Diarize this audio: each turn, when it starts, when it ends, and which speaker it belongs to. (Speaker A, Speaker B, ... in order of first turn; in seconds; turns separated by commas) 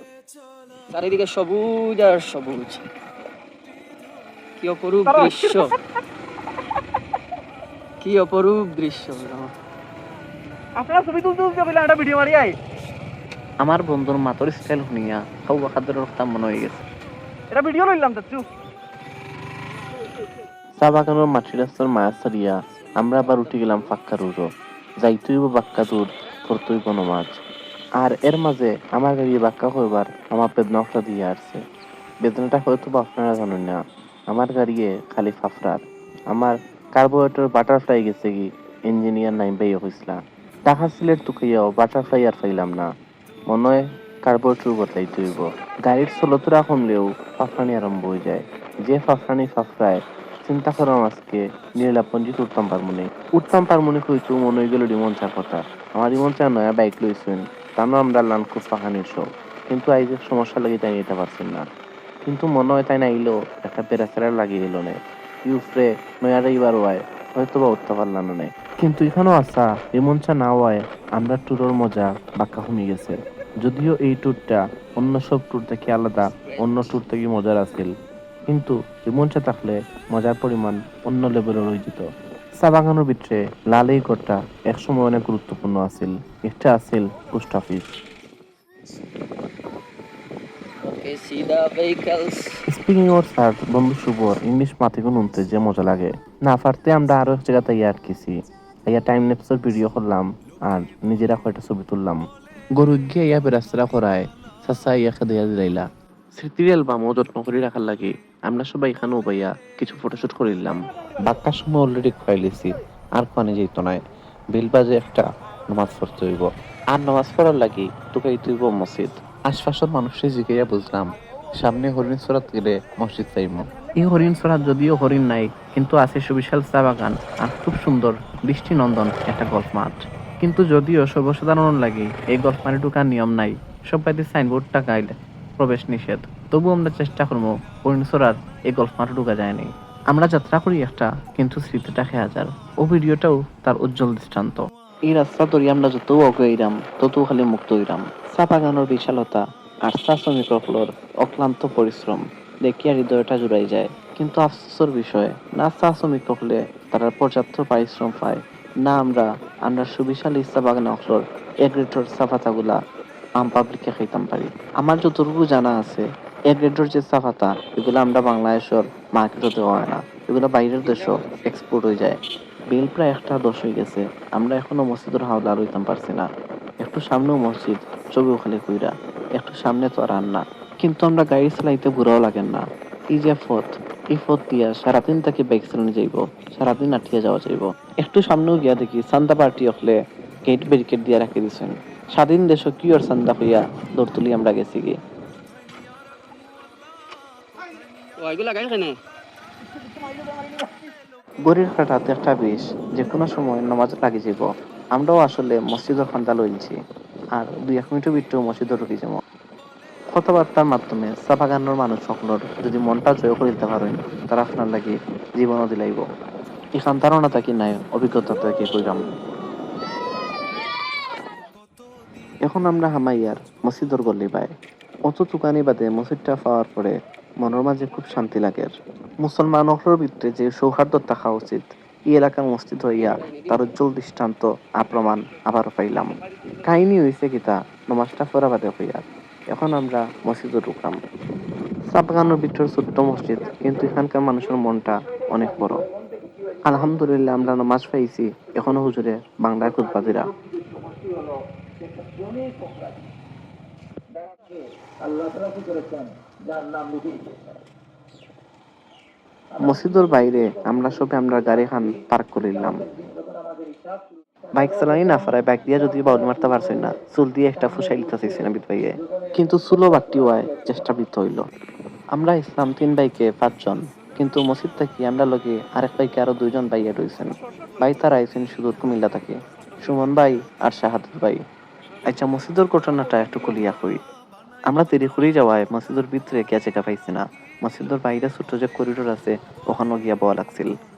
Speaker A: 0.9-2.8, Speaker A: 4.6-5.7, Speaker B: 5.0-5.7, Speaker A: 8.0-9.5, Speaker B: 10.8-12.5, Speaker C: 13.6-16.9, Speaker B: 17.5-18.4, Speaker C: 20.8-24.5, Speaker C: 25.0-27.4, Speaker C: 28.0-31.6, Speaker C: 32.2-42.9, Speaker C: 43.5-61.7, Speaker C: 62.2-77.9, Speaker A: 76.2-77.0, Speaker C: 78.5-82.0, Speaker C: 82.6-87.9, Speaker A: 90.8-92.6, Speaker C: 92.7-98.3, Speaker C: 98.9-102.2, Speaker C: 102.8-114.0, Speaker C: 114.5-162.8, Speaker C: 163.4-172.2, Speaker C: 172.7-176.3, Speaker C: 176.8-195.0, Speaker A: 198.2-199.0, Speaker C: 201.5-206.8, Speaker C: 207.3-209.2, Speaker C: 210.1-216.1, Speaker C: 216.8-219.1, Speaker C: 222.4-224.5, Speaker C: 225.1-228.7, Speaker C: 229.2-241.0, Speaker C: 241.9-245.8, Speaker C: 246.7-250.3, Speaker C: 259.6-262.9, Speaker C: 264.5-271.4, Speaker C: 272.1-281.4, Speaker C: 282.1-284.0, Speaker C: 284.7-290.7